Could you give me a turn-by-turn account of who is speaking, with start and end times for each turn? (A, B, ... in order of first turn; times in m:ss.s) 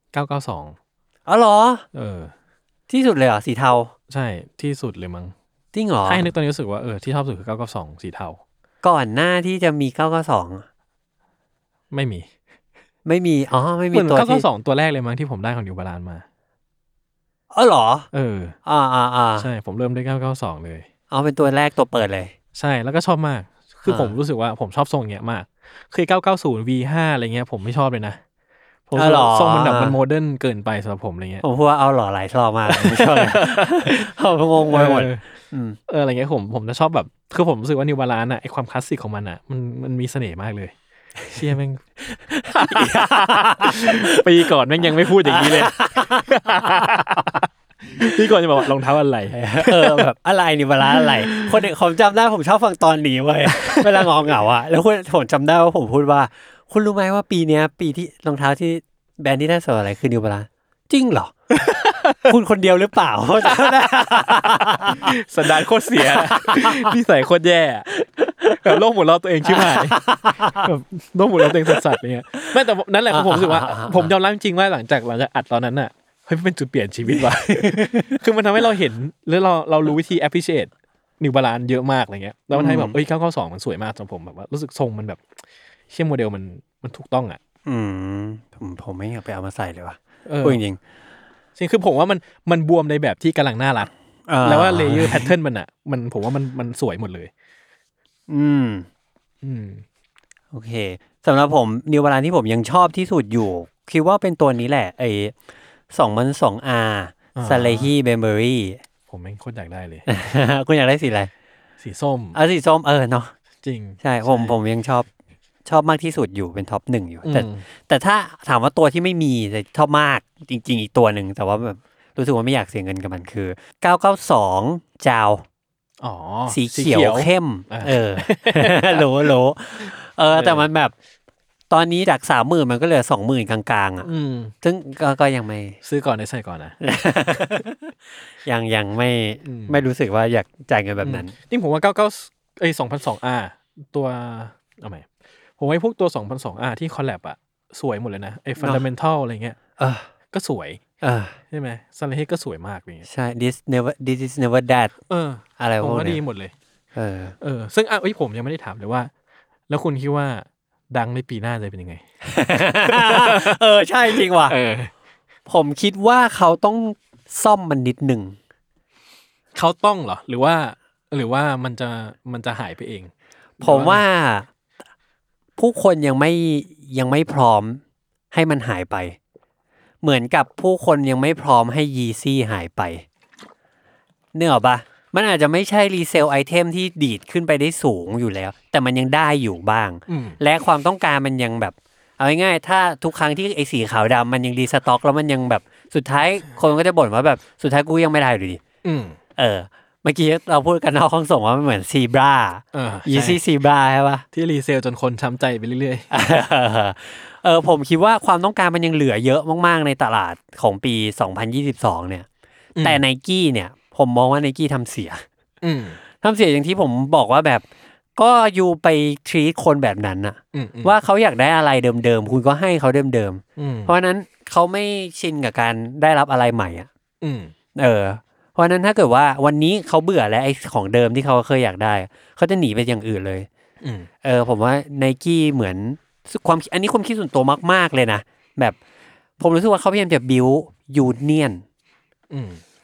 0:00.1-0:00.8 A
0:01.2-0:01.8 B
0:01.9-0:02.3 A
0:02.9-0:03.9 B
0:04.1-0:05.3 A
0:05.7-0:06.3 B
0:06.0-0:08.4 A
0:08.8-0:10.6 B
0:11.9-0:12.3 A
0:13.0-0:14.4 B
0:13.9-0:16.2 A
0:17.5-0:18.1 B
0:18.1-0:18.6 A
0:18.6-0:19.5 B
0:19.4-0:20.9 A
0:21.1-0:22.3 B
0:22.5-0:28.2 A
0:23.8-0:24.1 B
0:28.9-0:31.4 A
0:29.0-0:30.0 B
0:31.4-0:35.8 B
0:32.7-0:34.1 A
0:34.7-0:35.2 A
0:35.9-0:40.7 A
0:41.3-0:50.1 A
0:42.3-0:44.2 B
0:45.1-0:46.8 B
0:49.3-1:01.3 B
0:50.9-0:51.5 A
0:53.6-0:54.1 A
1:01.5-1:02.2 A
1:02.2-1:05.1 B
1:03.4-1:07.9 A
1:06.0-1:06.9 B
1:08.4-1:25.2 A
1:09.4-1:10.7 B
1:13.1-1:14.1 B
1:17.1-1:18.2 B
1:22.5-1:23.0 B
1:25.9-1:27.4 A
1:27.6-1:30.8 B
1:30.2-1:30.6 A
1:31.6-1:33.9 A
1:34.3-1:35.3 B
1:34.4-1:37.3 A
1:38.3-1:38.9 B
1:39.4-1:39.8 A
1:40.5-1:45.3 B
1:45.9-1:48.8 B
1:47.3-1:47.9 A
1:49.1-1:50.1 A
1:50.1-1:51.3 B
1:51.8-1:52.4 A
1:52.3-1:53.3 B
1:53.6-1:54.5 A
1:54.0-1:55.1 B
1:55.6-2:05.4 B
1:57.2-1:57.6 A
2:06.0-2:09.3 A
2:06.5-2:10.9 B
2:10.3-2:10.7 A
2:11.7-2:14.1 B
2:14.0-2:14.5 A
2:14.6-2:15.8 B
2:15.8-2:16.8 A
2:16.8-2:17.8 B
2:18.4-2:21.3 B
2:19.4-2:19.8 A
2:21.0-2:25.1 A
2:25.6-2:29.6 A
2:28.6-2:28.8 B
2:29.8-2:30.1 B
2:30.3-2:30.8 A
2:31.0-2:31.4 B
2:31.5-2:33.1 A
2:33.0-2:34.9 B
2:35.1-2:36.5 A
2:35.6-2:36.2 B
2:36.9-2:37.4 B
2:37.4-2:39.1 A
2:39.7-2:42.0 A
2:42.2-2:44.6 B
2:42.7-2:43.6 A
2:44.1-2:44.9 A
2:45.5-2:48.4 B
2:49.5-2:54.0 A
2:53.6-2:54.5 B
2:55.6-2:57.8 B
2:58.3-2:59.2 B
3:00.0-3:03.0 B
3:04.3-3:18.6 B
3:10.1-3:10.4 A
3:18.8-3:19.2 A
3:19.4-3:24.2 B
3:22.7-3:23.4 A
3:24.3-3:26.1 A
3:26.1-3:32.2 B
3:32.8-3:33.0 A
3:32.8-3:35.2 B
3:35.6-3:36.0 A
3:36.2-3:37.6 B
3:38.2-3:46.9 B
3:40.5-3:41.0 A
3:43.6-3:43.9 A
3:47.2-3:47.5 A
3:47.8-3:53.5 B
3:53.8-3:54.1 A
3:54.2-3:58.8 B
3:59.4-4:01.6 B
4:02.3-4:02.6 A